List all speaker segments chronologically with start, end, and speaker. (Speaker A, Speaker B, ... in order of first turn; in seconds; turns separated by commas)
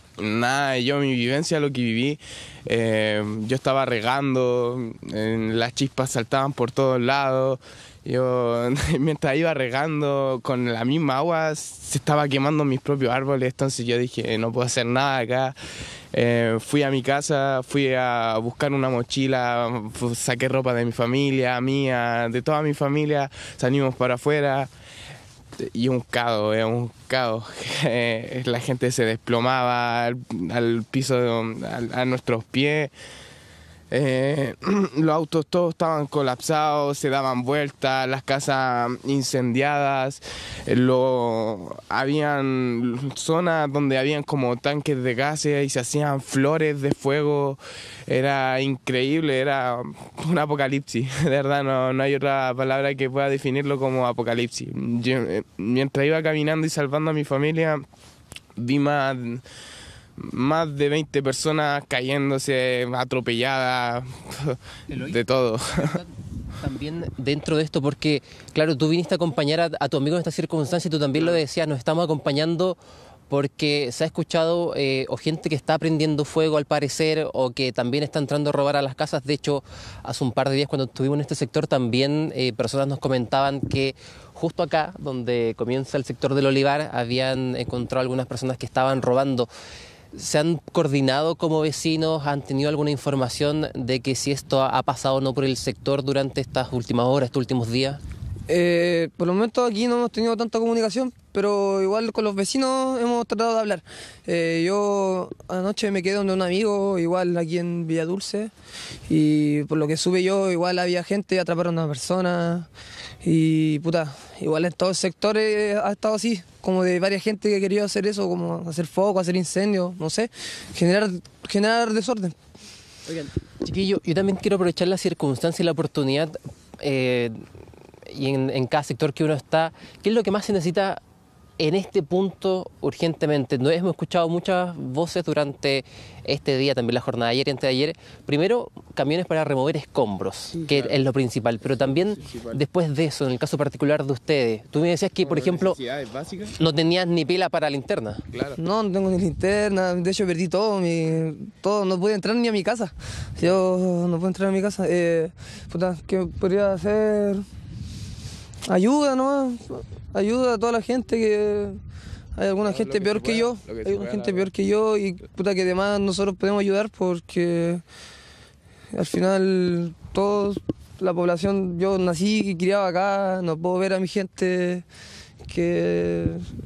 Speaker A: 0.2-15.6, Speaker A: 16.1-24.7, Speaker A: 25.7-32.9, Speaker A: 33.9-57.9, Speaker A: 58.6-59.4, Speaker A: 60.2-64.6, Speaker B: 64.9-65.2, Speaker A: 65.1-65.8, Speaker B: 65.7-72.8, Speaker B: 73.3-89.5, Speaker B: 90.1-98.0, Speaker C: 98.5-108.5, Speaker C: 109.1-112.7, Speaker C: 113.2-122.3, Speaker B: 123.2-127.4, Speaker B: 128.1-131.0, Speaker B: 131.6-145.8, Speaker A: 140.7-141.0, Speaker A: 142.2-142.6, Speaker A: 145.2-146.5, Speaker B: 146.6-148.2, Speaker A: 148.3-148.6, Speaker C: 148.6-157.4, Speaker C: 158.7-161.8, Speaker C: 162.3-167.8, Speaker A: 162.7-164.5, Speaker C: 168.9-174.8, Speaker C: 175.5-176.4